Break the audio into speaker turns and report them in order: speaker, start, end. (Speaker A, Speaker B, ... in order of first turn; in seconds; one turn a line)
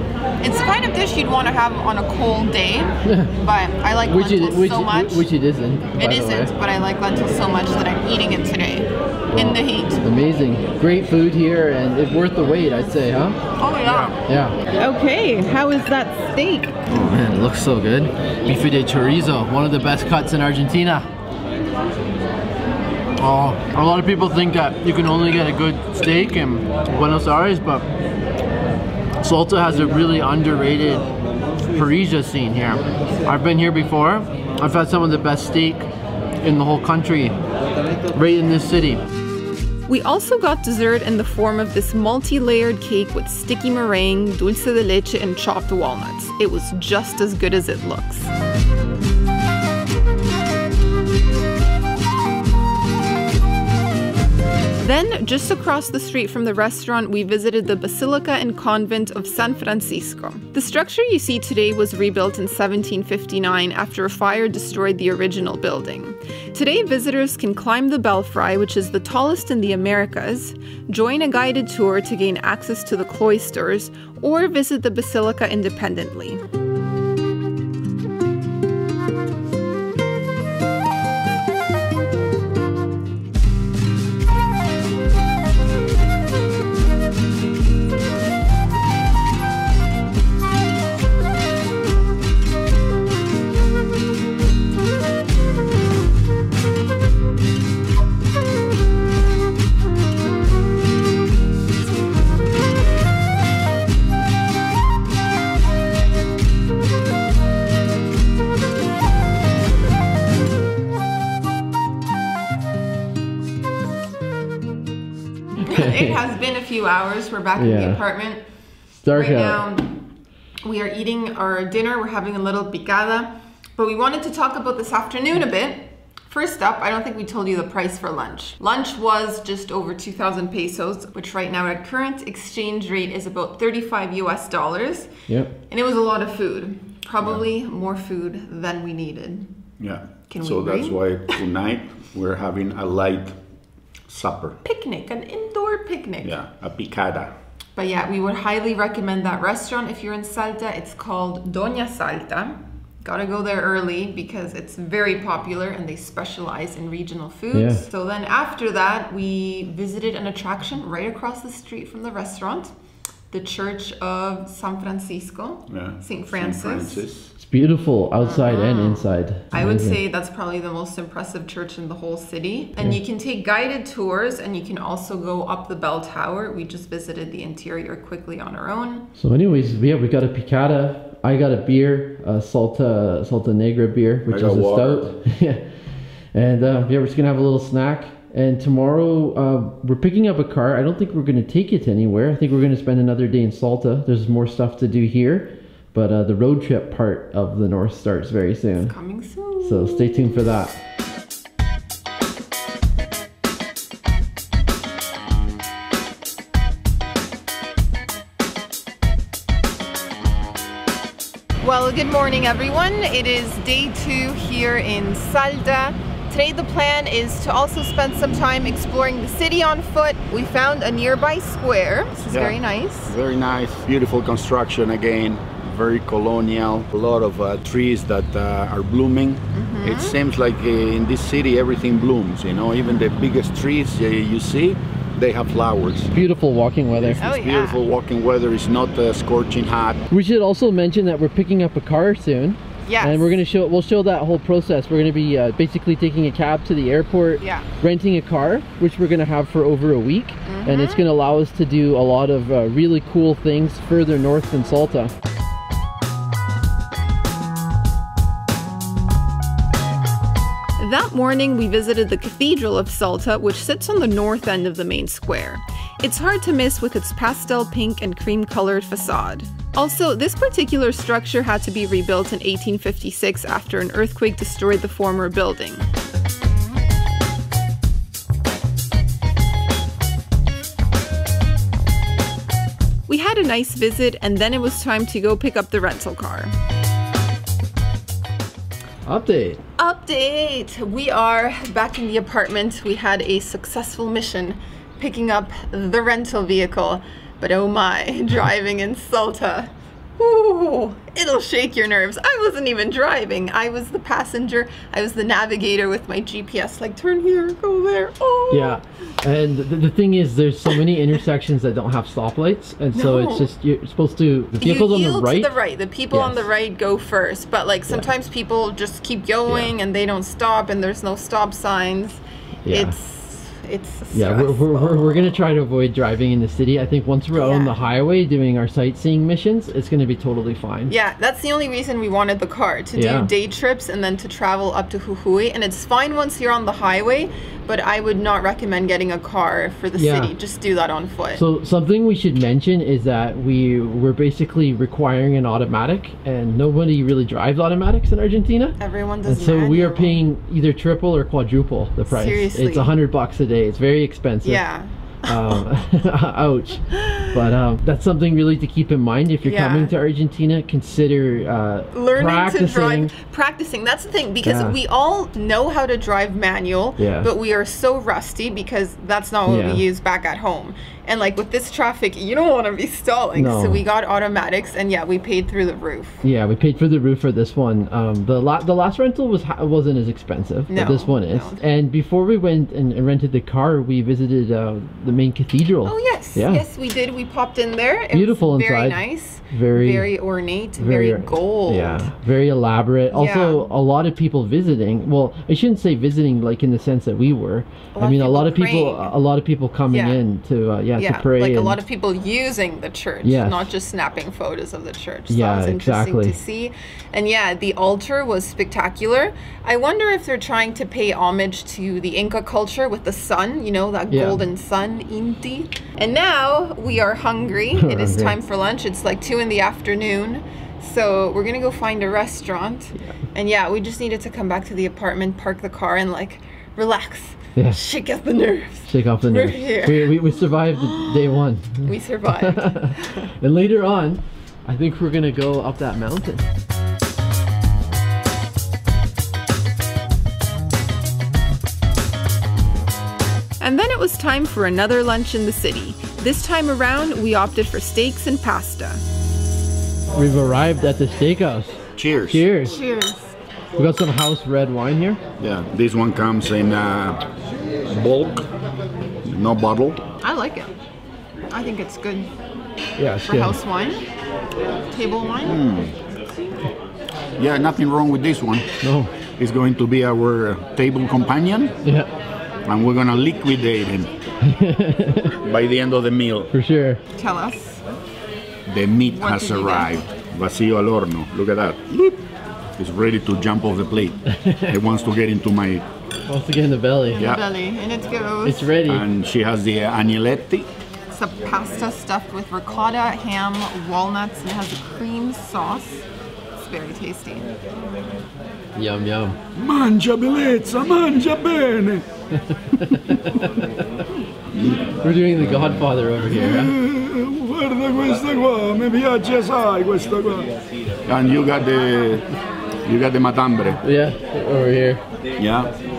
Speaker A: 0.4-5.3
Speaker B: 3.0-3.4
Speaker B: 4.1-6.5
Speaker A: 6.0-10.0
Speaker B: 9.3-14.6
Speaker A: 13.6-16.8
Speaker B: 16.9-21.1
Speaker B: 23.2-27.9
Speaker B: 29.2-31.1
Speaker B: 31.7-35.9
Speaker B: 36.4-37.4
Speaker B: 38.1-39.0
Speaker A: 39.9-48.3
Speaker A: 54.8-76.4
Speaker B: 115.6-116.2
Speaker A: 115.7-118.4
Speaker B: 117.6-118.0
Speaker B: 119.0-119.6
Speaker A: 119.1-120.0
Speaker A: 120.6-135.1
Speaker B: 135.3-135.6
Speaker A: 135.7-139.5
Speaker C: 139.8-143.4
Speaker A: 140.3-141.4
Speaker C: 144.1-144.6
Speaker A: 144.6-146.4
Speaker C: 146.2-147.3
Speaker A: 147.8-162.7
Speaker B: 157.5-157.8
Speaker A: 163.3-167.0
Speaker C: 165.7-167.3
Speaker B: 167.4-170.0
Speaker A: 168.2-179.1
Speaker B: 179.2-198.9
Speaker C: 184.3-185.1
Speaker A: 198.8-200.2
Speaker B: 199.6-200.8
Speaker A: 211.6-223.1
Speaker C: 222.3-236.1
Speaker A: 229.5-230.2
Speaker B: 236.1-237.2
Speaker C: 237.0-240.0
Speaker A: 237.2-237.8
Speaker B: 240.1-255.1
Speaker A: 242.8-243.4
Speaker A: 247.4-247.7
Speaker A: 250.5-251.1
Speaker A: 260.8-275.9
Speaker A: 283.1-286.5
Speaker B: 289.1-289.6
Speaker A: 289.8-308.8
Speaker B: 308.5-315.6
Speaker A: 312.9-313.5
Speaker A: 314.6-325.4
Speaker B: 316.1-316.5
Speaker B: 319.5-319.7
Speaker B: 322.6-322.9
Speaker B: 324.1-330.9
Speaker A: 327.3-327.8
Speaker A: 330.9-341.4
Speaker B: 333.0-333.3
Speaker B: 340.0-340.3
Speaker B: 341.4-354.7
Speaker A: 348.8-350.2
Speaker A: 352.1-352.9
Speaker A: 354.4-355.6
Speaker B: 355.2-363.1
Speaker A: 356.9-357.3
Speaker A: 359.4-359.9
Speaker A: 361.9-376.2
Speaker B: 364.4-364.8
Speaker B: 367.0-367.3
Speaker B: 369.5-369.9
Speaker B: 373.4-373.8
Speaker B: 376.2-386.6
Speaker A: 380.7-381.6
Speaker A: 385.9-392.1
Speaker B: 388.1-390.1
Speaker B: 390.8-401.8
Speaker A: 393.1-393.6
Speaker A: 397.9-399.1
Speaker A: 399.9-400.2
Speaker A: 401.0-433.3
Speaker B: 403.2-403.7
Speaker B: 405.3-406.4
Speaker B: 414.1-414.4
Speaker B: 417.8-418.4
Speaker B: 428.9-436.4
Speaker A: 443.6-449.0
Speaker B: 450.1-452.8
Speaker C: 452.0-452.4
Speaker A: 452.6-453.3
Speaker B: 453.8-455.2
Speaker C: 455.4-457.2
Speaker C: 457.9-458.5
Speaker C: 459.2-460.0
Speaker A: 460.2-460.7
Speaker A: 461.5-462.3
Speaker B: 463.0-463.6
Speaker A: 463.2-464.0
Speaker A: 464.9-465.6
Speaker C: 465.4-466.0
Speaker C: 467.4-468.7
Speaker B: 468.8-469.1
Speaker C: 469.4-471.7
Speaker B: 471.8-472.1
Speaker C: 472.6-474.1
Speaker B: 474.4-475.4
Speaker C: 475.4-476.5
Speaker B: 476.5-477.0
Speaker A: 477.2-477.8
Speaker C: 478.7-482.2
Speaker A: 479.1-480.0
Speaker C: 482.8-485.9
Speaker B: 484.3-484.8
Speaker B: 486.3-487.3
Speaker A: 487.1-488.7
Speaker C: 487.2-487.4
Speaker B: 488.4-489.1
Speaker C: 488.9-490.7
Speaker A: 491.1-496.1
Speaker A: 496.6-497.5
Speaker B: 498.8-499.4
Speaker C: 499.6-502.1
Speaker B: 502.3-504.1
Speaker C: 504.5-510.5
Speaker B: 505.0-506.8
Speaker C: 511.0-512.3
Speaker C: 512.9-513.8
Speaker B: 513.8-515.0
Speaker C: 515.4-515.7